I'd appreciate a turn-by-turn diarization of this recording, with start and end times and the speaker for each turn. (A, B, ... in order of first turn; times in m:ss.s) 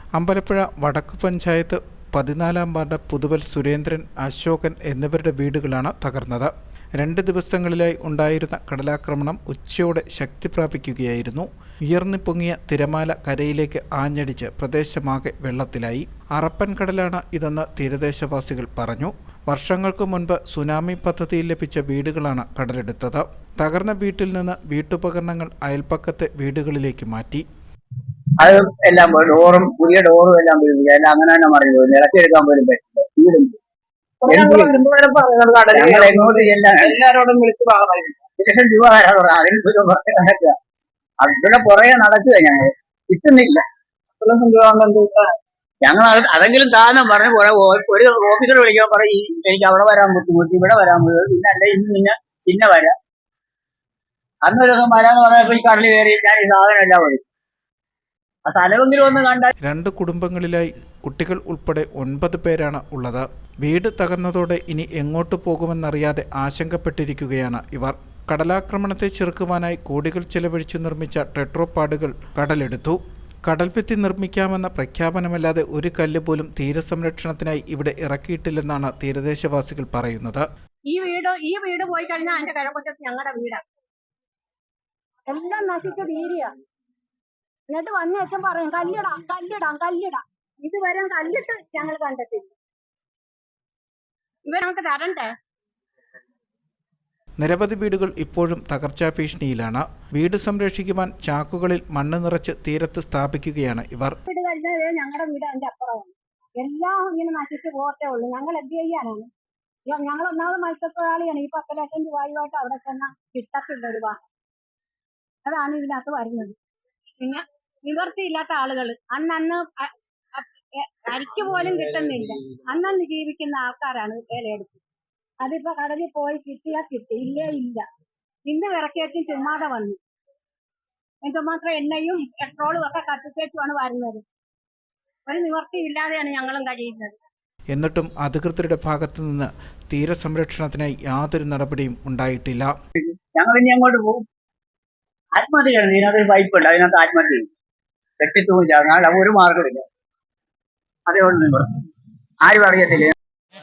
0:00.2-0:27.4 A
0:28.4-0:33.6 B
0:34.2-0:38.2 C
0:34.3-0:34.8 B
0:35.7-0:37.0 B
0:38.4-0:40.6 B
0:41.2-0:43.6 B
0:44.2-0:45.1 C
0:45.8-0:52.9 B
0:54.4-0:57.2 B
0:58.5-0:59.5 B
0:59.6-1:20.4 A
1:20.9-1:23.6 D
1:25.3-1:26.5 D
1:27.7-1:32.5 D
1:34.5-1:35.3 D
1:37.4-1:44.2 A
1:44.3-1:49.3 D
1:49.9-1:54.2 D
1:55.4-1:56.6 D
1:57.2-2:04.8 D
2:05.4-2:07.8 D
2:08.5-2:10.0 D
2:11.2-2:14.2 D
2:15.3-2:17.2 D
2:17.7-2:22.7 A
2:23.0-2:24.2 B
2:25.4-2:27.5 B
2:28.2-2:29.8 B
2:31.1-2:31.9 B
2:32.4-2:33.1 B